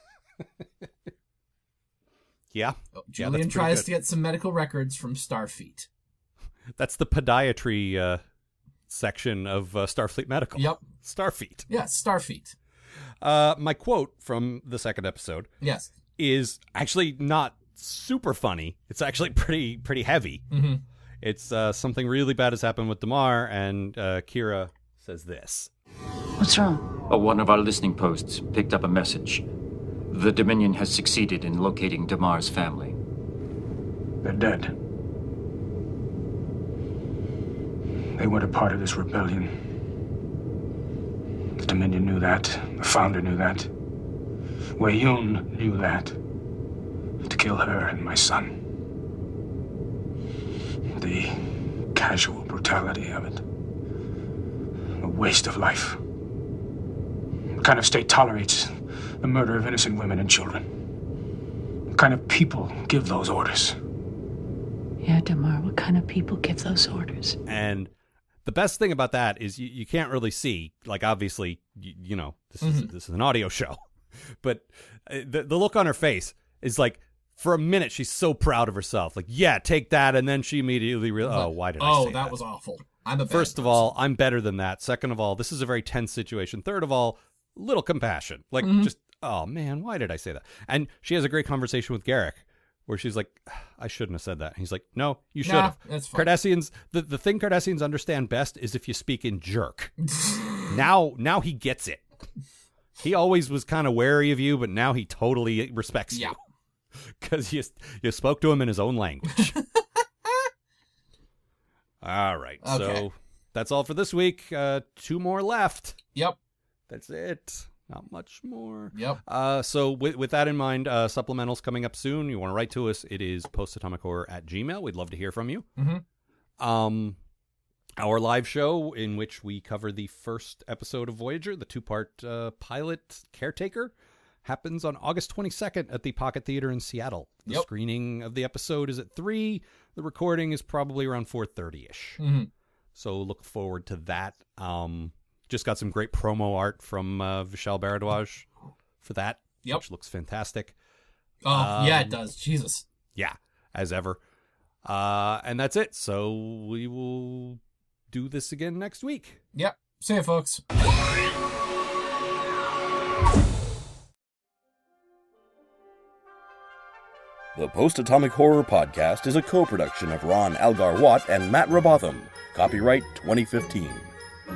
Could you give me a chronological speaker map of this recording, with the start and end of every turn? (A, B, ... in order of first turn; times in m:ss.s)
0:02.5-0:03.9 A
0:02.9-0:05.9 B
0:06.8-0:08.2 A
0:08.9-0:11.7 A
0:10.6-0:10.8 B
0:11.7-0:12.6 B
0:13.2-0:15.5 A
0:15.6-0:15.9 B
0:16.2-0:20.4 A
0:20.5-0:20.8 B
0:21.2-0:25.7 A
0:26.4-0:26.9 C
0:27.0-0:29.4 D
0:30.1-0:33.0 D
0:34.2-0:34.7 E
0:38.2-0:39.5 E
0:41.6-0:43.7 E
0:44.8-0:46.2 E
0:47.2-0:48.5 E
0:51.0-0:51.4 E
0:51.9-0:53.4 E
0:55.0-0:56.0 E
0:57.5-0:58.7 E
0:59.2-1:00.7 E
1:01.9-1:03.7 E
1:05.0-1:07.4 C
1:07.4-1:07.9 A
1:08.4-1:13.8 A
1:12.6-1:12.9 B
1:14.4-1:22.4 A
1:21.2-1:23.9 B
1:23.3-1:39.9 A
1:28.6-1:28.9 B
1:35.4-1:36.3 B
1:40.1-1:40.7 B
1:40.7-1:42.0 A
1:43.0-1:46.4 A
1:46.1-1:46.4 B
1:47.0-1:49.6 A
1:52.0-1:56.0 A
1:52.6-1:53.0 B
1:56.9-2:05.6 A
1:58.9-1:59.2 B
2:05.8-2:06.0 B
2:06.6-2:07.2 A
2:08.0-2:13.9 A
2:14.4-2:22.2 A
2:22.2-2:22.5 B
2:22.9-2:28.5 A
2:29.0-2:30.7 A
2:31.4-2:32.8 B
2:31.5-2:32.2 A
2:33.1-2:34.2 A
2:34.8-2:39.4 A
2:39.5-2:40.6 B
2:47.5-2:54.1 F